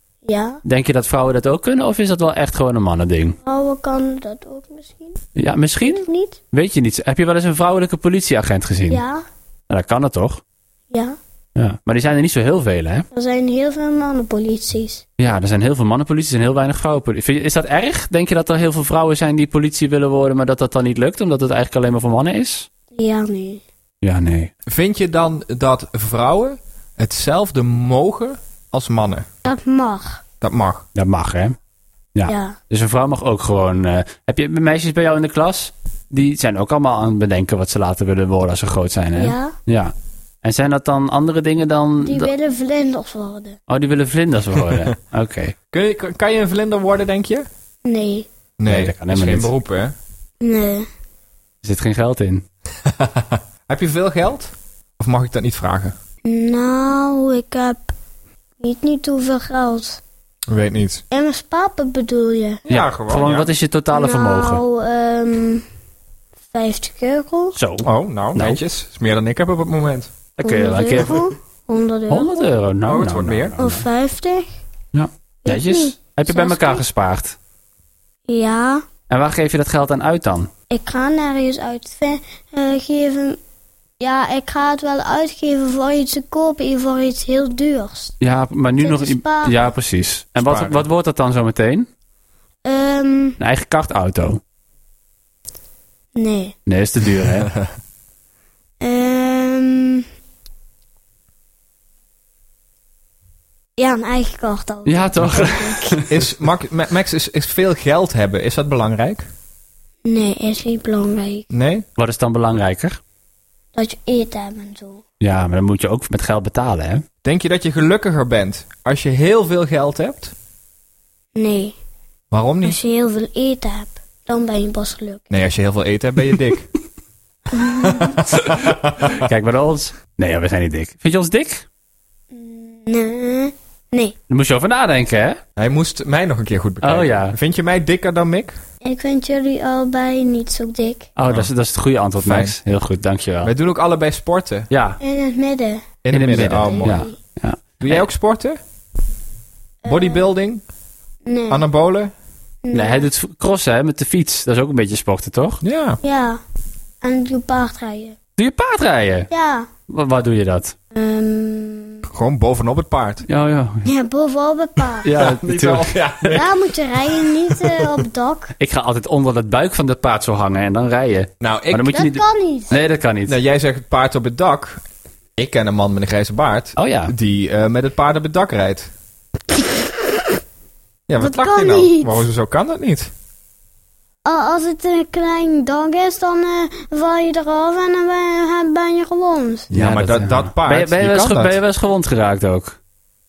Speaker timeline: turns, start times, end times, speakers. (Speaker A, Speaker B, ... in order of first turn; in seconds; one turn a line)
Speaker A: 0.2-0.6
Speaker B: 0.6-3.4
Speaker A: 3.4-5.2
Speaker B: 5.3-9.0
Speaker A: 5.8-6.4
Speaker A: 8.9-9.2
Speaker B: 9.7-10.4
Speaker A: 10.9-11.2
Speaker B: 11.6-13.1
Speaker A: 13.1-15.0
Speaker B: 15.2-22.7
Speaker A: 22.9-23.6
Speaker B: 24.0-24.5
Speaker C: 24.7-29.2
Speaker A: 29.4-30.2
Speaker C: 30.4-30.8
Speaker B: 30.9-31.6
Speaker B: 32.1-42.3
Speaker A: 32.2-32.6
Speaker A: 39.1-39.5
Speaker A: 42.0-43.6
Speaker B: 43.7-45.5
Speaker C: 45.7-47.5
Speaker A: 47.8-48.3
Speaker C: 48.6-49.9
Speaker B: 48.6-49.5
Speaker A: 50.4-50.9
Speaker B: 51.6-52.4
Speaker C: 52.9-55.9
Speaker A: 56.2-57.9
Speaker A: 58.6-60.0
Speaker C: 60.5-61.0
Speaker A: 61.1-62.6
Speaker C: 62.7-63.5
Speaker B: 62.7-64.6
Speaker A: 63.9-65.6
Speaker A: 66.5-67.6
Speaker B: 67.5-68.6
Speaker C: 67.8-70.1
Speaker B: 70.4-71.3
Speaker A: 70.4-72.5
Speaker B: 72.1-73.8
Speaker C: 72.8-73.6
Speaker A: 73.6-74.5
Speaker B: 74.9-77.3
Speaker A: 75.4-76.8
Speaker A: 78.3-78.8
Speaker B: 79.1-80.5
Speaker A: 80.7-83.4
Speaker A: 84.0-88.1
Speaker B: 88.2-91.9
Speaker A: 88.8-89.6
Speaker C: 90.3-90.8
Speaker A: 92.6-93.4
Speaker B: 93.4-94.4
Speaker A: 96.1-96.5
Speaker B: 96.7-97.5
Speaker C: 97.2-97.7
Speaker A: 98.8-100.0
Speaker A: 103.8-106.0
Speaker B: 104.8-106.3
Speaker C: 106.1-109.2
Speaker A: 110.0-111.5
Speaker C: 111.5-111.8
Speaker B: 112.0-113.0
Speaker A: 113.7-115.0
Speaker B: 115.2-117.0
Speaker C: 117.2-120.3
Speaker A: 121.3-121.8
Speaker C: 122.3-122.8
Speaker A: 122.6-125.2
Speaker C: 125.3-126.7
Speaker A: 127.5-128.2
Speaker C: 127.8-129.2
Speaker B: 128.3-131.6
Speaker A: 132.3-134.1
Speaker B: 134.3-135.4
Speaker C: 135.6-138.5
Speaker B: 136.8-137.4
Speaker A: 138.8-141.1
Speaker B: 141.2-143.5
Speaker C: 142.2-142.6
Speaker C: 143.4-144.7
Speaker B: 144.7-145.0
Speaker A: 145.0-147.1
Speaker C: 146.0-147.0
Speaker B: 146.1-148.1
Speaker C: 147.8-148.6
Speaker A: 149.8-150.2
Speaker C: 149.8-150.6
Speaker A: 151.2-151.6
Speaker C: 151.5-152.1
Speaker A: 152.6-153.1
Speaker B: 152.7-155.6
Speaker C: 155.6-156.0
Speaker A: 156.0-156.4
Speaker A: 157.0-158.2
Speaker B: 158.4-159.3
Speaker A: 159.3-159.7
Speaker B: 159.9-160.7
Speaker A: 160.9-162.0
Speaker C: 162.1-163.2
Speaker B: 163.3-163.9
Speaker A: 163.8-165.1
Speaker B: 165.0-166.4
Speaker C: 165.1-166.5
Speaker A: 166.3-168.5
Speaker B: 168.6-173.4
Speaker C: 171.4-172.0
Speaker A: 171.9-172.8
Speaker C: 173.3-174.8
Speaker C: 175.4-178.9
Speaker B: 176.8-177.1
Speaker C: 181.1-183.1
Speaker A: 181.2-182.2
Speaker A: 184.2-189.7
Speaker C: 189.7-191.6
Speaker B: 189.7-192.8